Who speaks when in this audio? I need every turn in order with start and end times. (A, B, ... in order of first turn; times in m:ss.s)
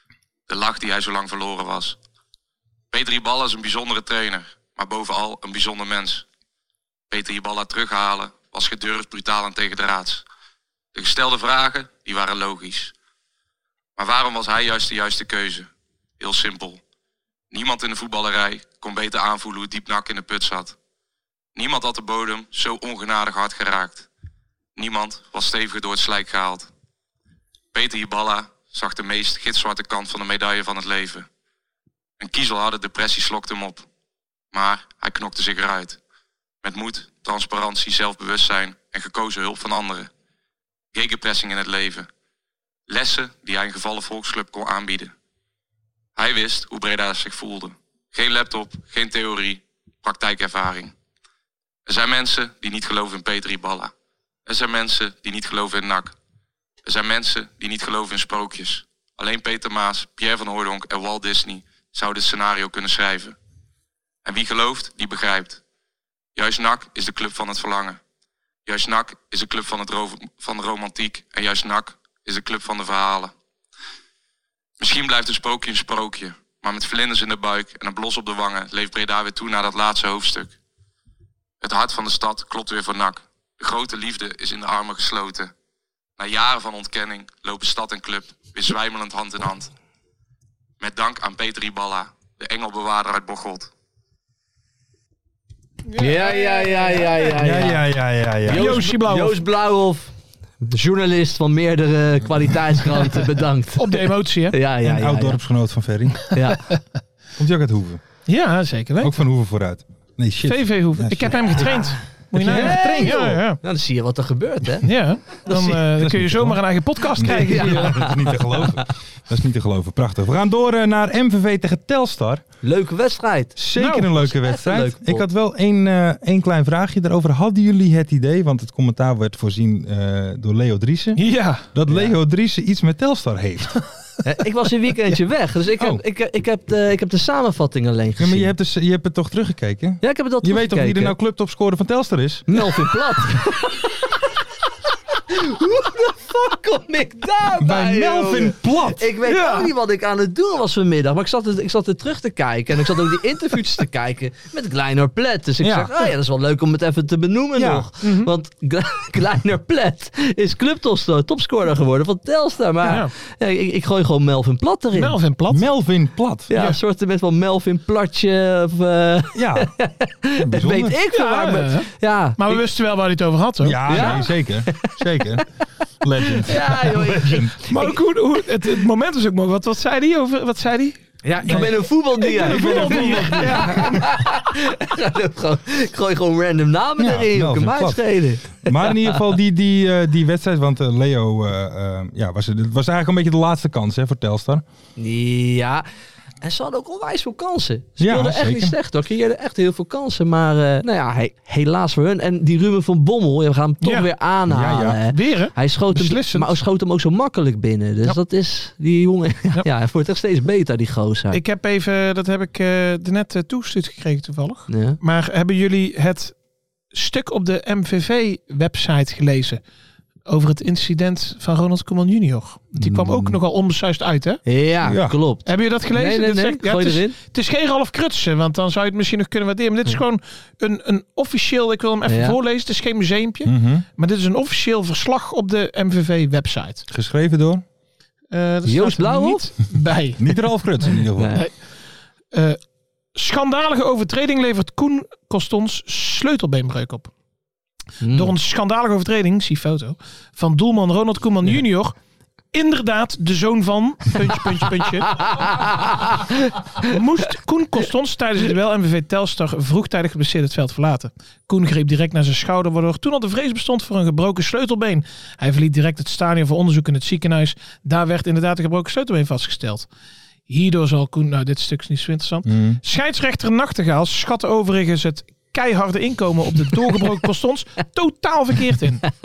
0:00.5-0:02.0 A
0:02.9-0:06.3 A
0:07.1-0:10.2 A
0:10.9-0:12.9 A
0:14.0-0:16.8 A
0:17.5-0:20.8 A
0:21.6-0:24.1 A
0:24.8-0:26.7 A
0:27.7-0:31.3 A
0:32.2-0:33.9 A
0:34.5-0:36.0 A
0:36.6-0:40.1 A
0:40.9-0:42.1 A
0:42.9-0:45.1 A
0:46.2-0:50.9 A
0:51.9-0:53.9 A
0:54.5-0:56.2 A
0:56.8-1:03.4 A
1:04.2-1:05.6 A
1:06.4-1:08.0 A
1:08.7-1:13.3 A
1:14.8-1:20.6 A
1:21.6-1:25.5 A
1:26.2-1:29.7 A
1:30.8-1:33.7 A
1:35.9-1:37.4 B
1:36.0-1:37.8 C
1:37.4-1:38.9 D
1:38.5-1:45.4 C
1:38.5-1:39.4 B
1:43.8-1:44.5 B
1:44.8-1:46.3 D
1:46.3-1:46.6 C
1:47.4-1:48.0 D
1:48.3-1:49.1 B
1:49.0-1:51.8 D
1:50.4-1:53.6 B
1:52.4-1:54.9 C
1:52.4-1:53.4 D
1:54.8-1:58.0 B
1:55.5-1:56.6 D
1:57.2-2:02.4 D
1:57.2-1:58.8 C
2:02.6-2:03.6 C
2:03.6-2:13.8 D
2:03.8-2:04.1 B
2:04.2-2:05.2 C
2:11.2-2:11.7 B
2:11.9-2:12.1 C
2:14.2-2:18.5 C
2:18.2-2:23.4 D
2:20.0-2:21.2 C
2:22.5-2:24.1 C
2:25.3-2:45.2 C
2:27.6-2:29.1 D
2:29.3-2:29.7 B
2:35.6-2:36.1 D
2:37.6-2:37.9 D
2:38.0-2:38.3 B
2:42.9-2:43.1 B
2:44.9-2:45.6 B
2:45.5-2:46.5 D
2:46.5-2:52.6 C
2:49.4-2:49.7 D
2:50.4-2:51.0 D
2:51.1-2:54.2 B
2:53.6-2:55.4 D
2:53.9-2:55.4 C
2:56.0-2:57.5 D
2:56.4-2:58.0 C
2:57.7-3:04.0 B
3:01.2-3:09.2 C
3:01.4-3:04.0 D
3:07.0-3:14.6 D
3:15.0-3:15.8 C
3:16.4-3:31.4 C
3:18.0-3:18.8 D
3:23.8-3:24.1 B
3:24.5-3:25.0 D
3:25.1-3:26.5 B
3:31.3-3:36.4 B
3:34.7-3:35.0 C
3:36.9-3:39.6 B
3:40.3-3:44.4 B
3:42.8-3:43.4 C
3:44.5-3:47.2 C
3:44.8-3:45.2 D
3:45.5-3:56.9 B
3:52.1-3:52.4 C
3:53.4-3:53.8 D
3:56.9-3:57.6 D
3:58.3-4:00.4 B
3:58.7-3:59.5 C
4:00.2-4:01.4 D
4:01.2-4:01.5 C
4:02.3-4:02.6 B
4:03.2-4:07.1 B
4:08.0-4:08.3 C
4:08.1-4:12.0 B
4:12.5-4:15.7 B
4:15.1-4:16.9 C
4:16.8-4:29.9 B
4:30.5-4:39.1 B
4:32.5-4:32.8 D